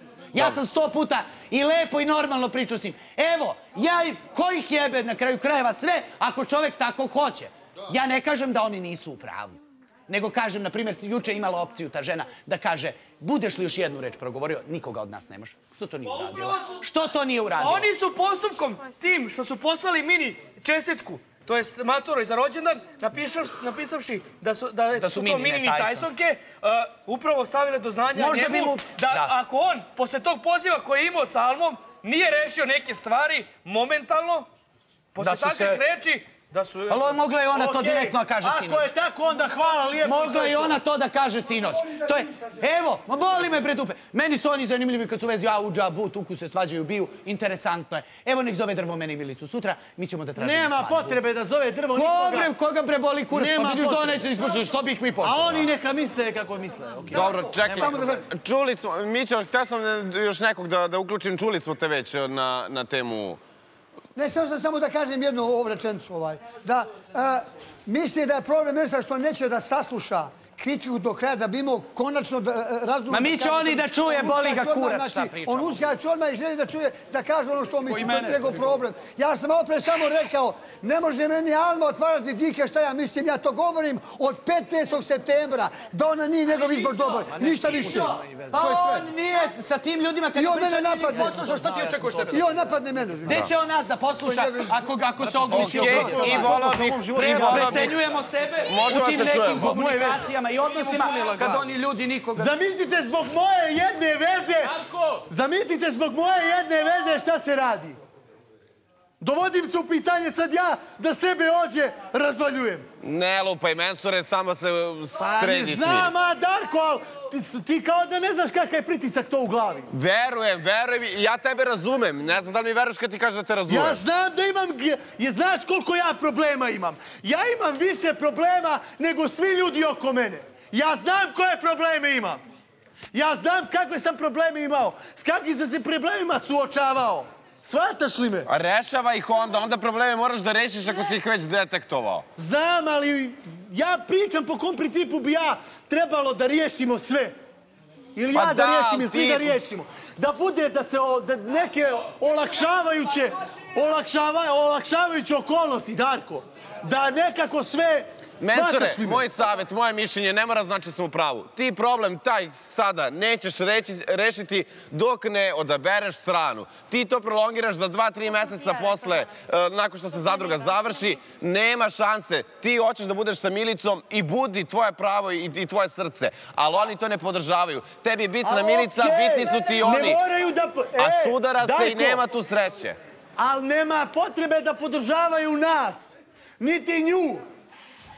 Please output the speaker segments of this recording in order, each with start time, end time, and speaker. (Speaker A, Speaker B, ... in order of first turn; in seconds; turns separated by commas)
Speaker A: 0.3-17.9, Speaker B: 16.1-16.8, Speaker B: 17.6-34.5, Speaker A: 25.0-26.1, Speaker A: 28.1-29.4, Speaker B: 35.1-37.2, Speaker A: 35.2-35.8, Speaker A: 36.9-38.9, Speaker C: 37.5-40.8, Speaker A: 40.0-51.2, Speaker C: 50.4-52.5, Speaker A: 51.9-55.7, Speaker C: 53.3-54.6, Speaker C: 55.2-58.1, Speaker D: 57.1-63.4, Speaker E: 57.1-58.2, Speaker E: 64.2-89.1, Speaker A: 73.1-76.0, Speaker A: 77.8-78.8, Speaker C: 86.5-88.7, Speaker A: 87.7-92.6, Speaker E: 90.3-91.8, Speaker C: 91.3-92.5, Speaker E: 92.3-93.5, Speaker A: 93.2-96.6, Speaker E: 94.2-94.9, Speaker C: 95.2-98.2, Speaker D: 95.5-98.0, Speaker A: 97.2-102.5, Speaker D: 98.7-100.3, Speaker B: 100.7-101.6, Speaker C: 102.4-104.8, Speaker C: 105.3-108.0, Speaker C: 109.2-112.9, Speaker D: 113.0-116.1, Speaker C: 115.2-119.9, Speaker D: 119.9-124.0, Speaker C: 123.7-132.4, Speaker C: 133.1-138.5, Speaker D: 138.5-142.2, Speaker C: 142.4-147.3, Speaker C: 148.2-159.3, Speaker D: 148.3-149.6, Speaker D: 158.4-180.2, Speaker C: 178.4-182.2, Speaker D: 181.0-183.0, Speaker C: 183.4-187.4